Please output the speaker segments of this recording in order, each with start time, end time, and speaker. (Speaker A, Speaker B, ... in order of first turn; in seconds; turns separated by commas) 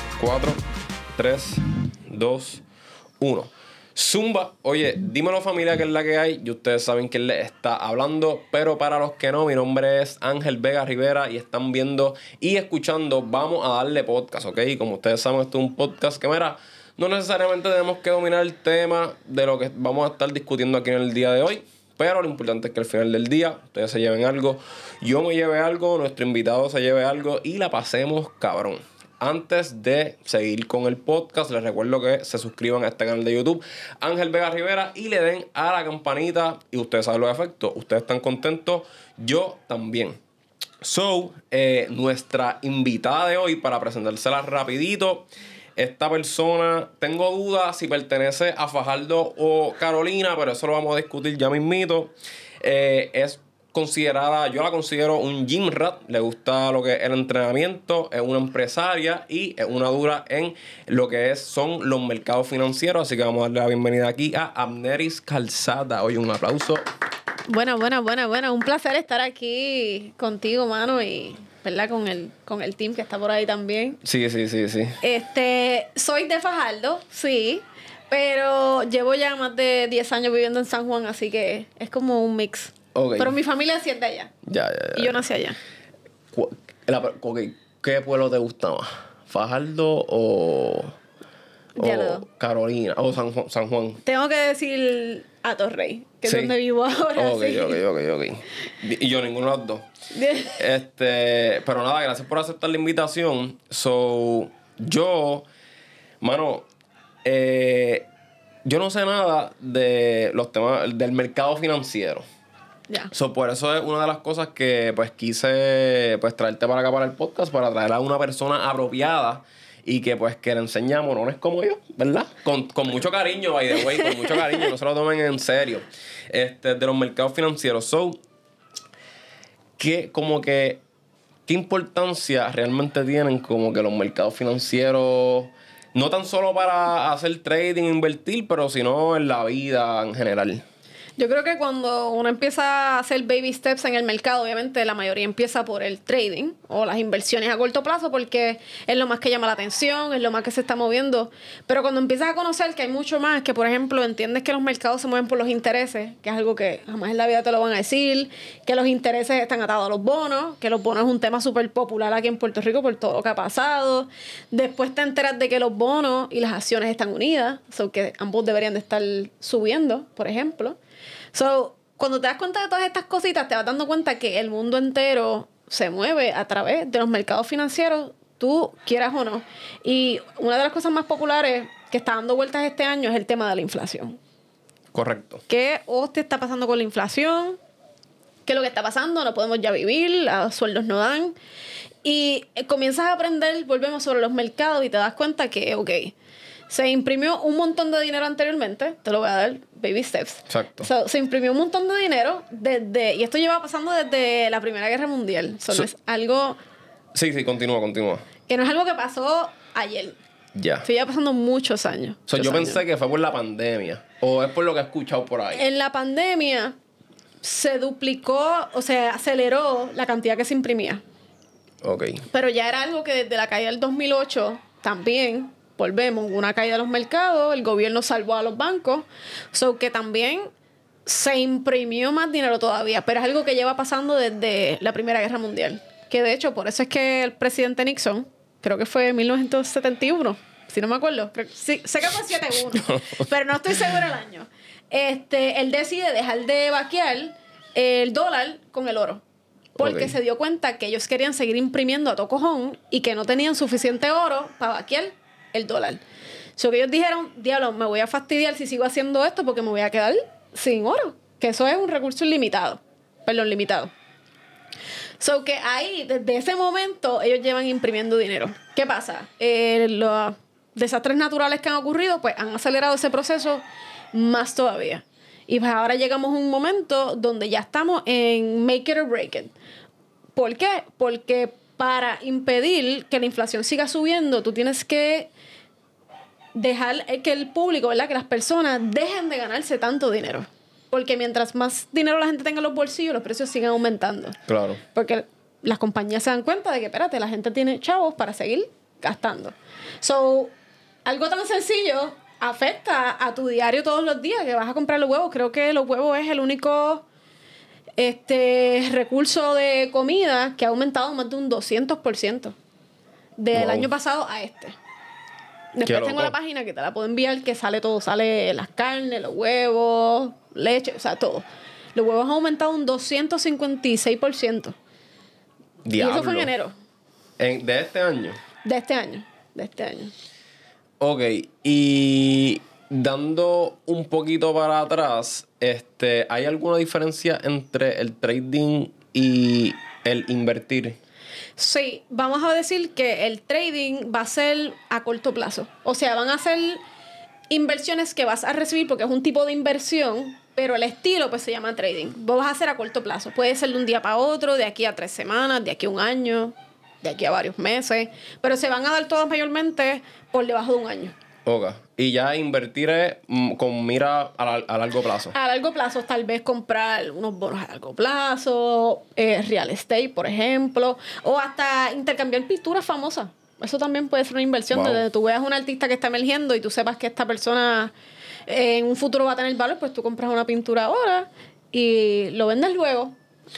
Speaker A: 0.2-0.6, Speaker A: 1.1-2.6, Speaker A: 3.2-40.2, Speaker A: 40.8-66.8, Speaker B: 67.5-74.0, Speaker A: 74.0-75.0, Speaker B: 75.0-84.3, Speaker A: 83.0-83.4, Speaker A: 84.5-85.2, Speaker B: 84.9-85.6, Speaker A: 86.3-90.9, Speaker B: 91.8-92.2, Speaker A: 91.8-94.0, Speaker B: 94.0-97.8, Speaker A: 96.2-96.5, Speaker A: 97.2-99.9, Speaker B: 100.1-100.6, Speaker A: 100.5-105.5, Speaker A: 106.2-106.7, Speaker A: 107.2-108.1, Speaker A: 108.7-112.2, Speaker A: 113.1-128.2, Speaker A: 129.8-130.8, Speaker A: 131.5-140.6, Speaker B: 141.2-170.8, Speaker B: 171.3-184.2, Speaker A: 184.9-185.4, Speaker B: 185.5-187.6, Speaker B: 188.5-191.3, Speaker B: 192.0-196.2, Speaker B: 196.7-206.6, Speaker A: 200.5-200.9, Speaker A: 207.1-208.3, Speaker B: 208.5-210.2, Speaker A: 210.6-210.9, Speaker B: 210.8-212.8, Speaker A: 212.3-215.6, Speaker B: 215.5-216.8, Speaker B: 217.4-221.0, Speaker A: 221.8-222.2, Speaker B: 222.3-230.5, Speaker B: 231.1-249.2, Speaker A: 242.5-243.3, Speaker A: 249.8-250.2, Speaker B: 249.8-256.0, Speaker B: 256.6-263.9, Speaker B: 265.2-279.5, Speaker B: 280.4-285.3, Speaker B: 286.5-294.4, Speaker A: 294.5-294.8, Speaker B: 294.9-300.5, Speaker B: 301.1-307.1, Speaker B: 308.0-312.6, Speaker B: 313.4-314.8, Speaker A: 313.5-313.9, Speaker B: 315.7-324.8, Speaker A: 315.9-316.3, Speaker A: 325.9-326.5, Speaker B: 326.0-326.7, Speaker A: 327.4-328.4, Speaker B: 328.6-330.1, Speaker A: 331.0-341.0, Speaker B: 341.6-346.8, Speaker B: 347.5-361.1, Speaker A: 361.5-365.3, Speaker B: 365.3-377.9, Speaker A: 374.7-375.0, Speaker B: 378.5-383.2